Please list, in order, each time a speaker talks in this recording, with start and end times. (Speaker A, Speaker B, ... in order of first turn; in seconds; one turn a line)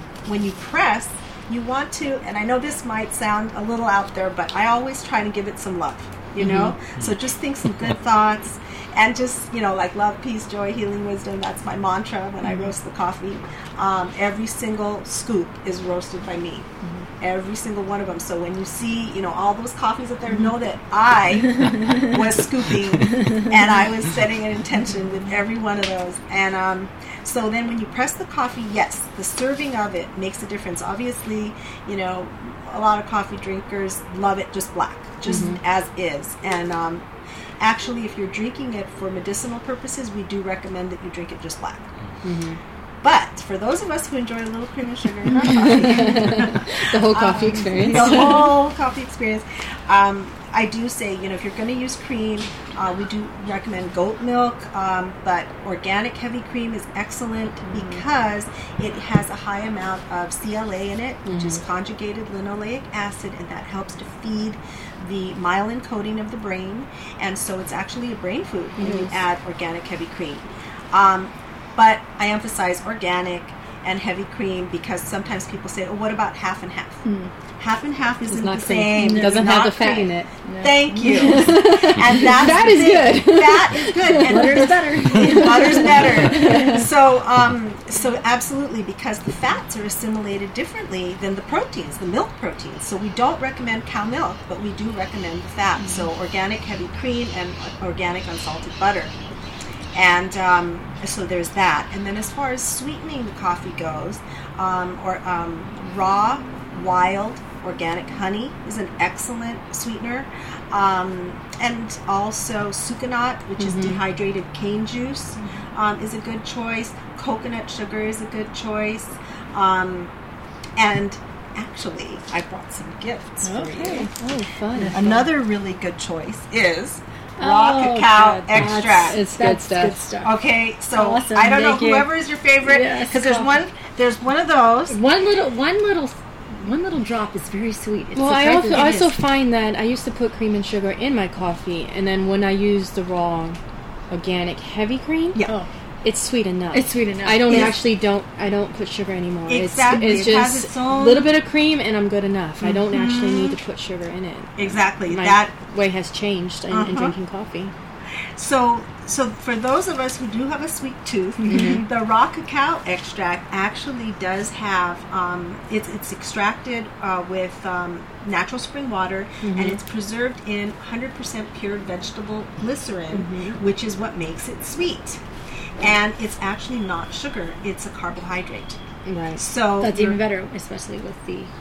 Speaker A: 0.3-16.7
Speaker B: 6.4-6.8
Speaker A: 17.2-37.0
Speaker C: 21.7-22.0
Speaker B: 35.3-35.6
Speaker A: 37.6-41.9
Speaker B: 42.2-42.6
Speaker A: 43.0-77.0
Speaker B: 45.3-48.5
Speaker B: 61.3-61.6
Speaker B: 68.8-69.1
Speaker C: 77.0-77.3
Speaker A: 77.6-99.2
Speaker B: 78.3-80.3
Speaker C: 78.5-81.7
Speaker B: 81.0-86.9
Speaker C: 84.1-86.8
Speaker C: 95.8-96.1
Speaker A: 99.9-120.1
Speaker B: 113.6-114.0
Speaker A: 120.8-124.1
Speaker B: 123.4-125.3
Speaker C: 124.8-125.2
Speaker A: 124.9-129.2
Speaker C: 127.4-130.3
Speaker B: 128.6-130.0
Speaker A: 130.2-135.0
Speaker C: 130.9-132.1
Speaker C: 132.6-133.5
Speaker C: 134.9-139.2
Speaker B: 138.2-143.6
Speaker B: 144.1-145.4
Speaker B: 146.0-157.7
Speaker C: 146.7-147.8
Speaker A: 147.5-147.8
Speaker A: 149.5-151.4
Speaker A: 152.6-153.6
Speaker A: 154.6-155.5
Speaker A: 156.7-157.1
Speaker A: 158.4-175.2
Speaker B: 161.5-161.9
Speaker B: 169.4-169.8
Speaker B: 173.1-173.6
Speaker A: 175.8-178.8
Speaker B: 179.1-179.4
Speaker A: 179.4-180.2
Speaker C: 179.8-181.5